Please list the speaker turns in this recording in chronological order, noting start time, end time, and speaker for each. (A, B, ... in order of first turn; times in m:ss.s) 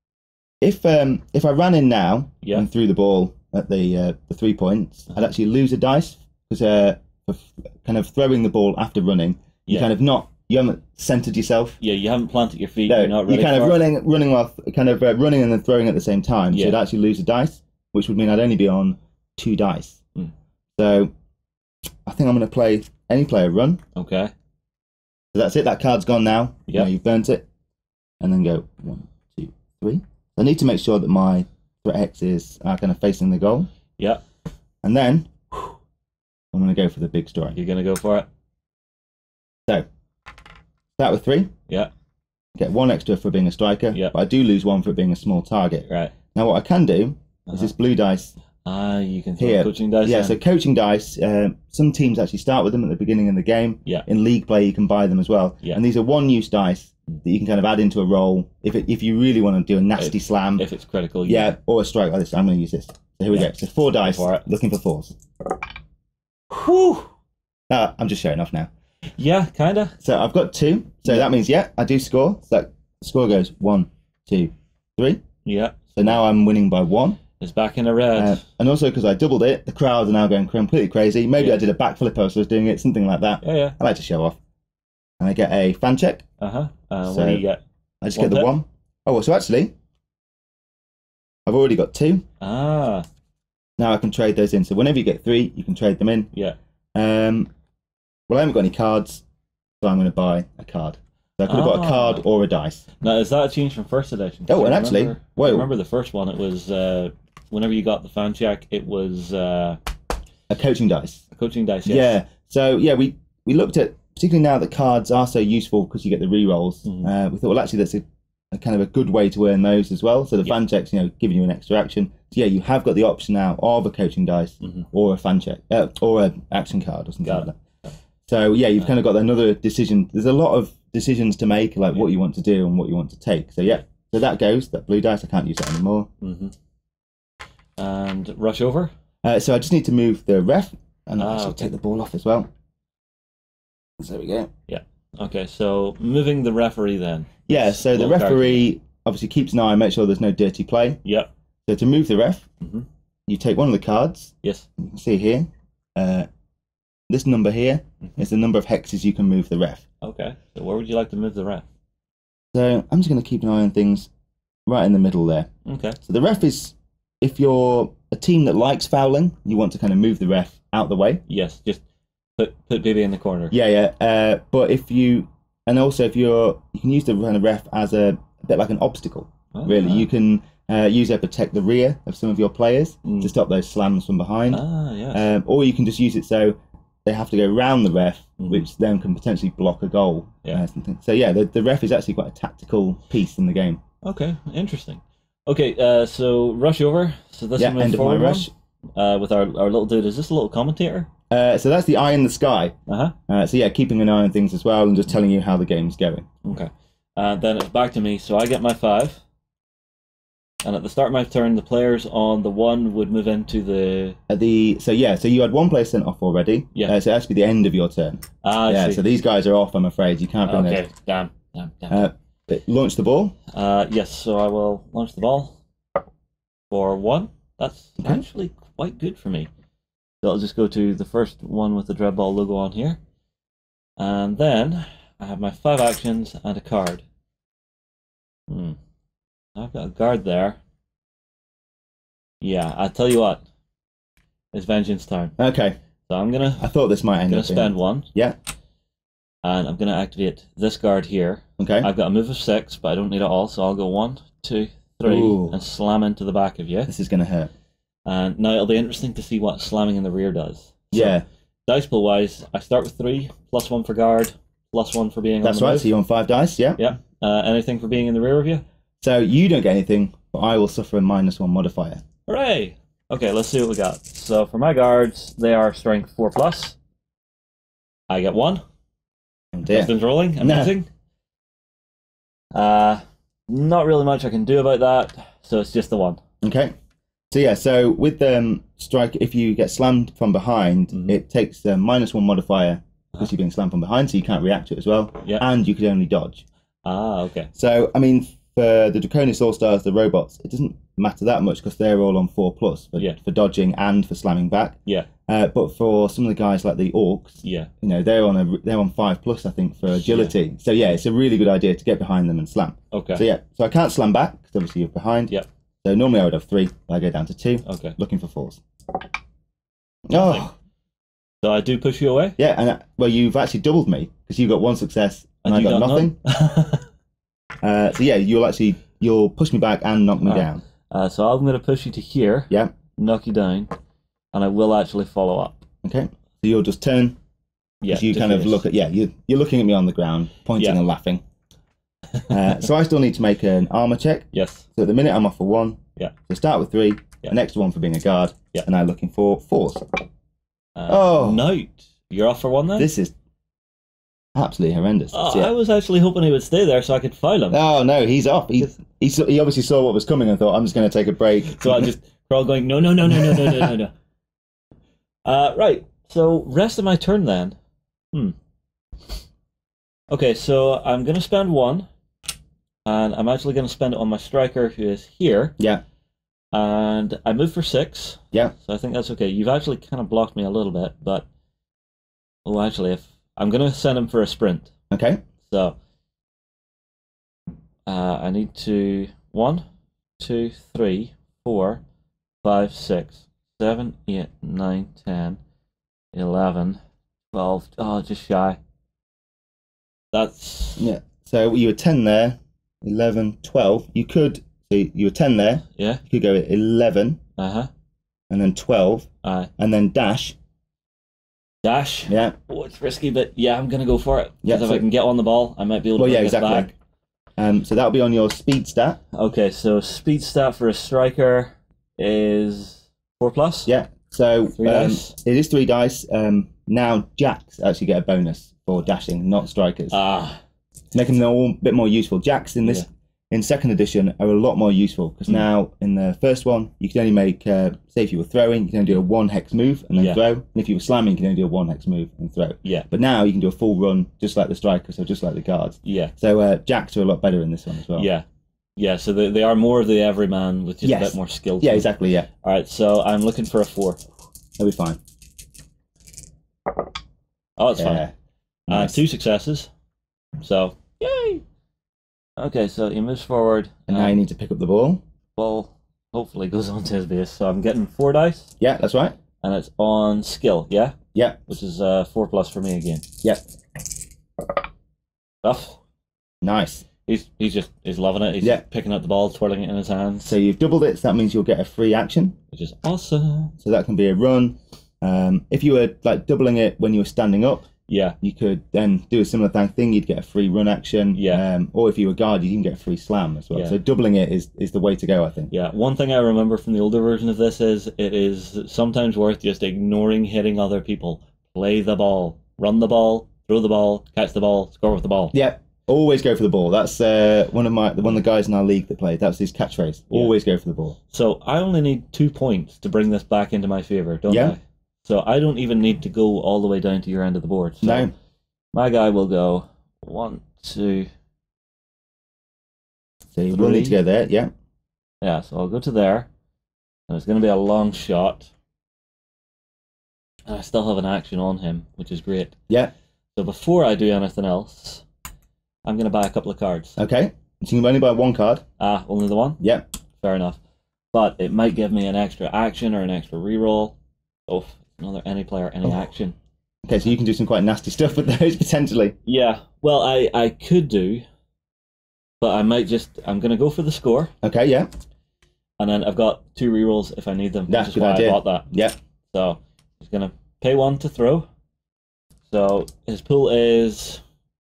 0:00.6-0:11.8 A
0:11.8-0:13.8 B
0:12.9-0:20.0 A
0:16.5-0:16.8 B
0:20.8-0:21.1 A
0:22.1-0:23.8 A
0:24.0-0:24.3 B
0:25.3-0:27.5 A
0:28.2-0:33.7 A
0:34.8-0:35.8 A
0:36.5-0:37.6 A
0:37.6-0:38.3 B
0:41.0-0:41.5 A
0:42.6-0:48.3 A
0:45.9-0:46.1 B
0:48.6-0:50.4 B
0:49.4-1:00.6 A
1:00.0-1:01.5 B
1:01.2-1:05.2 A
1:04.0-1:04.5 B
1:06.5-1:07.1 A
1:07.7-1:08.7 A
1:09.2-1:10.0 B
1:10.0-1:15.2 A
1:15.4-1:16.2 B
1:16.0-1:17.2 A
1:17.4-1:18.4 B
1:18.2-1:24.4 A
1:23.4-1:23.8 B
1:25.2-1:26.2 A
1:26.4-1:27.6 B
1:27.1-1:27.4 A
1:28.0-1:29.7 A
1:28.2-1:28.5 B
1:31.5-1:32.2 A
1:32.4-1:33.1 B
1:33.8-1:36.3 A
1:37.0-1:37.5 A
1:38.3-1:39.2 A
1:39.8-1:42.8 A
1:41.5-1:42.2 B
1:43.0-1:49.8 B
1:44.5-1:45.7 A
1:50.5-1:51.2 A
1:51.3-1:52.2 B
1:51.9-2:07.5 A
1:56.8-1:57.1 B
2:08.3-2:16.1 A
2:16.2-2:16.5 B
2:17.8-2:18.9 B
2:19.2-2:22.5 A
2:21.2-2:21.7 B
2:24.0-2:24.5 A
2:24.7-2:28.6 B
2:27.5-2:31.0 A
2:31.0-2:31.3 B
2:31.7-2:32.4 A
2:32.6-2:32.9 B
2:33.3-2:36.3 A
2:37.1-2:39.8 A
2:40.0-2:41.6 B
2:42.5-2:44.1 A
2:44.7-2:45.5 A
2:45.7-2:46.0 B
2:46.0-2:51.2 A
2:51.3-2:51.8 B
2:52.4-2:53.5 B
2:53.5-3:13.8 A
2:59.5-3:00.1 B
3:03.0-3:03.3 B
3:04.5-3:05.2 B
3:08.4-3:08.7 B
3:14.0-3:21.1 B
3:17.6-3:18.5 A
3:21.3-3:22.8 A
3:22.9-3:23.1 B
3:23.3-3:26.3 A
3:26.4-3:29.2 B
3:30.6-3:34.2 B
3:34.3-3:40.8 A
3:38.4-3:39.1 B
3:40.4-3:42.1 B
3:41.9-3:43.4 A
3:43.5-3:45.6 B
3:46.7-3:49.5 B
3:50.2-3:53.0 B
3:54.0-3:57.0 B
3:58.5-3:58.8 B
3:59.6-4:00.6 B
4:02.4-4:03.4 B
4:04.5-4:05.4 B
4:05.4-4:05.8 A
4:06.1-4:06.7 B
4:06.6-4:08.4 A
4:07.3-4:08.1 B
4:09.4-4:16.9 B
4:11.6-4:11.9 A
4:15.0-4:15.6 A
4:16.9-4:17.5 A
4:18.1-4:25.9 B
4:20.9-4:21.2 A
4:25.4-4:26.8 A
4:26.8-4:28.6 B
4:29.0-4:32.0 A
4:32.3-4:36.8 B
4:38.1-4:38.6 B
4:39.5-4:40.7 A
4:39.7-4:40.9 B
4:42.5-4:46.2 B
4:46.4-4:46.7 A
4:47.3-4:56.4 A
4:50.9-4:51.2 B
4:56.8-4:57.5 B
4:57.5-5:18.6 A
5:07.4-5:07.7 B
5:09.9-5:10.3 B
5:12.9-5:13.2 B
5:17.6-5:18.0 B
5:20.1-5:20.5 A
5:20.1-5:20.5 B
5:21.4-5:22.4 B
5:22.4-5:26.2 A
5:25.4-5:26.8 B
5:27.6-5:30.6 A
5:30.2-5:33.7 B
5:34.3-5:35.6 B
5:35.8-5:37.2 A
5:37.8-5:38.6 B
5:37.9-5:41.2 A
5:42.3-5:50.0 A
5:44.3-5:44.7 B
5:50.8-5:52.9 B
5:50.9-5:51.5 A
5:52.8-5:53.1 A
5:54.4-5:55.5 A
5:55.1-5:57.6 B
5:57.5-6:01.9 A
6:01.5-6:03.9 B
6:03.1-6:03.8 A
6:05.2-6:07.6 B
6:10.1-6:11.9 B
6:12.9-6:15.6 B
6:15.6-6:15.8 A
6:16.5-6:21.3 B
6:22.4-6:24.7 B
6:24.9-6:25.2 A
6:25.4-6:25.8 B
6:27.9-6:29.6 B
6:30.2-6:31.8 B
6:32.4-6:35.4 B
6:36.1-6:36.8 B
6:37.3-6:38.6 B
6:40.1-6:40.9 B
6:40.8-6:47.2 A
6:47.4-6:47.7 B
6:48.3-6:50.4 A
6:49.2-6:49.5 B
6:51.6-6:56.7 B
6:52.1-6:52.3 A
6:54.4-6:54.8 A
6:56.0-6:56.7 A
6:57.4-6:59.0 A
6:59.1-7:03.7 B
7:03.7-7:10.0 A
7:04.6-7:05.2 B
7:09.9-7:10.4 B
7:10.9-7:28.1 A
7:20.0-7:20.2 B
7:25.8-7:26.1 B
7:28.0-7:28.2 B
7:28.8-7:31.9 B
7:30.8-7:32.3 A
7:32.4-7:34.0 B
7:34.6-7:35.0 A
7:37.6-7:38.0 B
7:37.8-7:38.1 A
7:38.7-7:39.0 A
7:38.7-7:39.7 B
7:40.4-7:41.4 B
7:42.4-7:44.2 B
7:43.9-7:45.0 A
7:45.4-7:48.5 B
7:48.6-7:49.2 A
7:49.4-7:51.0 B
7:51.2-7:51.5 A
7:51.5-7:53.1 B
7:55.4-7:55.8 B
7:56.4-7:56.8 A
7:57.1-8:00.3 B
8:00.2-8:02.4 A
8:02.5-8:03.5 B
8:03.6-8:07.7 A
8:07.9-8:08.2 B
8:08.2-8:15.5 A
8:11.1-8:11.4 B
8:15.5-8:25.3 B
8:25.3-8:31.0 A
8:31.1-8:38.1 B
8:34.3-8:34.6 A
8:37.8-8:38.1 A
8:38.7-8:41.1 B
8:43.4-8:44.5 A
8:43.5-8:44.0 B
8:45.2-8:46.3 B
8:47.1-8:48.5 B
8:50.5-8:52.6 B
8:53.4-8:55.0 B
8:55.8-8:57.0 B
8:57.0-8:58.6 A
8:58.8-8:59.6 B
9:00.2-9:00.6 B
9:01.1-9:04.0 B
9:04.5-9:06.4 B
9:06.8-9:09.2 A
9:09.3-9:11.2 B
9:12.4-9:14.3 B
9:14.4-9:14.9 A
9:15.8-9:18.7 B
9:17.7-9:19.0 A
9:19.3-9:21.5 B
9:22.5-9:24.2 B